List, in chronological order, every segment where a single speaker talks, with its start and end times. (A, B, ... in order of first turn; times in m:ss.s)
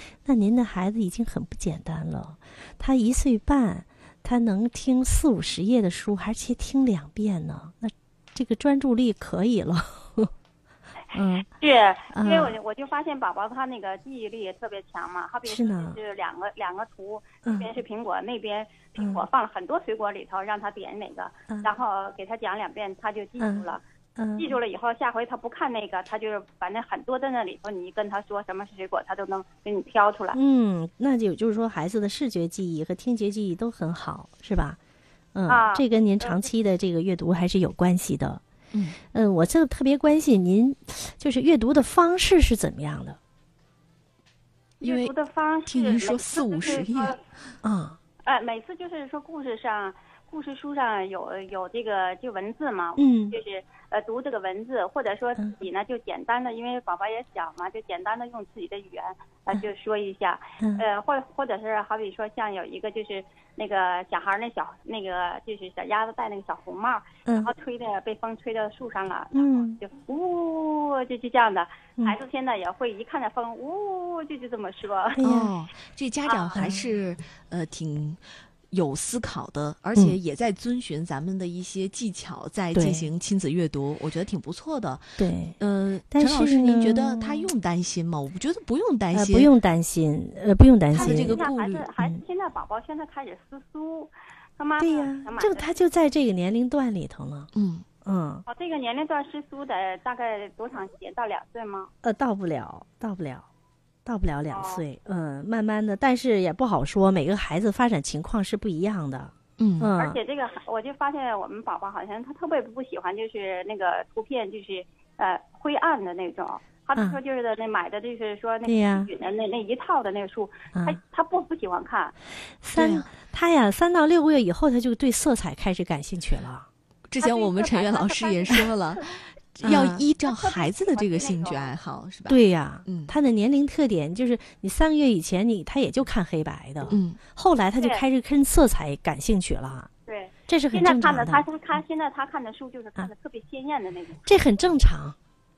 0:00.2-0:10.3 A
0:11.1-0:23.8 B
0:11.1-0:11.5 A
0:12.1-0:12.6 A
0:15.4-0:16.0 A
0:17.4-0:17.7 A
0:19.0-0:19.2 A
0:21.5-0:21.8 A
0:23.4-0:24.5 A
0:24.4-0:30.4 B
0:30.3-0:34.8 A
0:35.4-0:38.4 A
0:35.5-0:36.4 B
0:39.0-0:43.2 A
0:44.8-0:47.2 B
0:44.8-0:45.1 C
0:45.7-0:47.2 C
0:47.6-0:48.0 A
0:48.2-1:15.2 B
0:53.0-0:53.4 A
1:00.6-1:00.8 A
1:07.3-1:07.5 A
1:09.4-1:09.8 A
1:15.1-1:15.5 A
1:15.2-1:29.5 C
1:16.2-1:16.7 B
1:16.6-1:16.8 A
1:22.7-1:23.1 A
1:25.2-1:25.6 A
1:26.1-1:27.5 A
1:29.1-1:31.4 A
1:30.9-1:31.9 C
1:31.0-1:35.7 B
1:34.8-1:37.5 A
1:37.5-1:37.8 C
1:38.0-1:38.4 A
1:38.5-1:41.9 B
1:42.0-1:43.5 A
1:44.0-1:50.2 A
1:44.5-1:44.8 B
1:49.6-1:49.9 C
1:50.0-2:02.2 B
1:58.6-1:59.1 A
2:02.6-2:06.7 A
2:02.8-2:03.1 C
2:07.1-2:13.1 C
2:07.2-2:11.7 B
2:09.6-2:10.0 A
2:12.3-2:19.9 A
2:16.9-2:17.2 C
2:17.8-2:18.0 B
2:20.1-2:24.3 B
2:20.5-2:21.4 A
2:24.3-2:25.2 A